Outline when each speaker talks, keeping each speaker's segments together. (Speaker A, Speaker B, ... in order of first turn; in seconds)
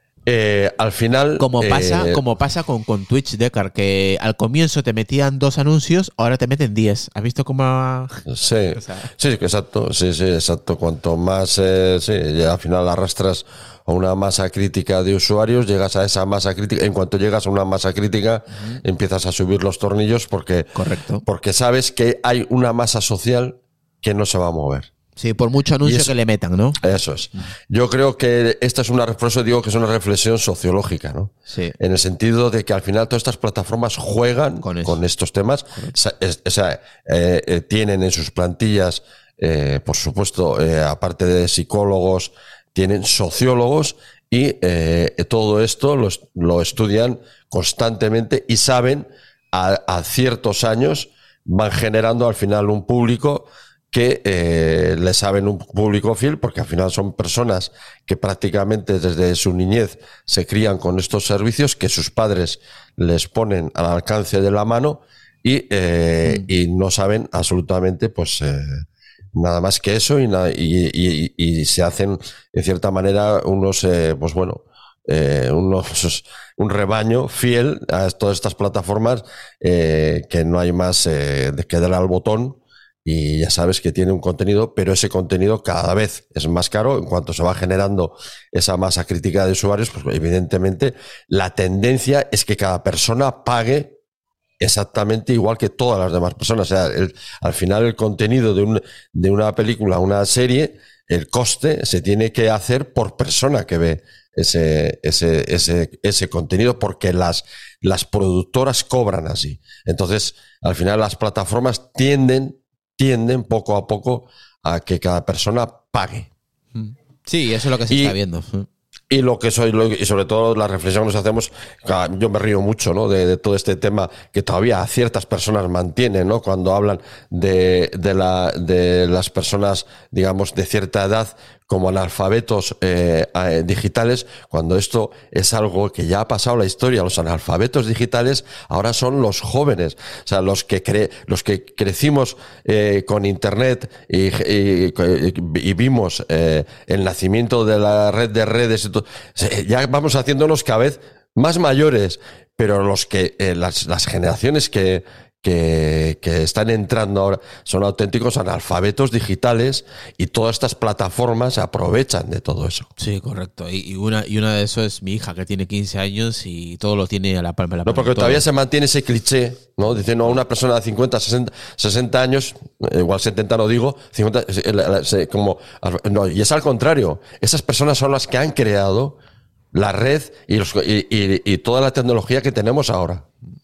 Speaker A: 0.2-2.2, 8.3-20.7, 21.2-24.9, 25.8-26.1, 26.8-68.8, 69.3-93.9, 94.6-116.3, 117.9-118.1, 119.1-162.9, 167.8-179.2, 179.7-183.2
Speaker B: 1.4-8.2, 8.7-9.1, 18.5-18.8, 20.7-21.2, 25.2-26.8, 31.5-31.7, 34.6-35.0, 116.7-118.7, 163.0-168.4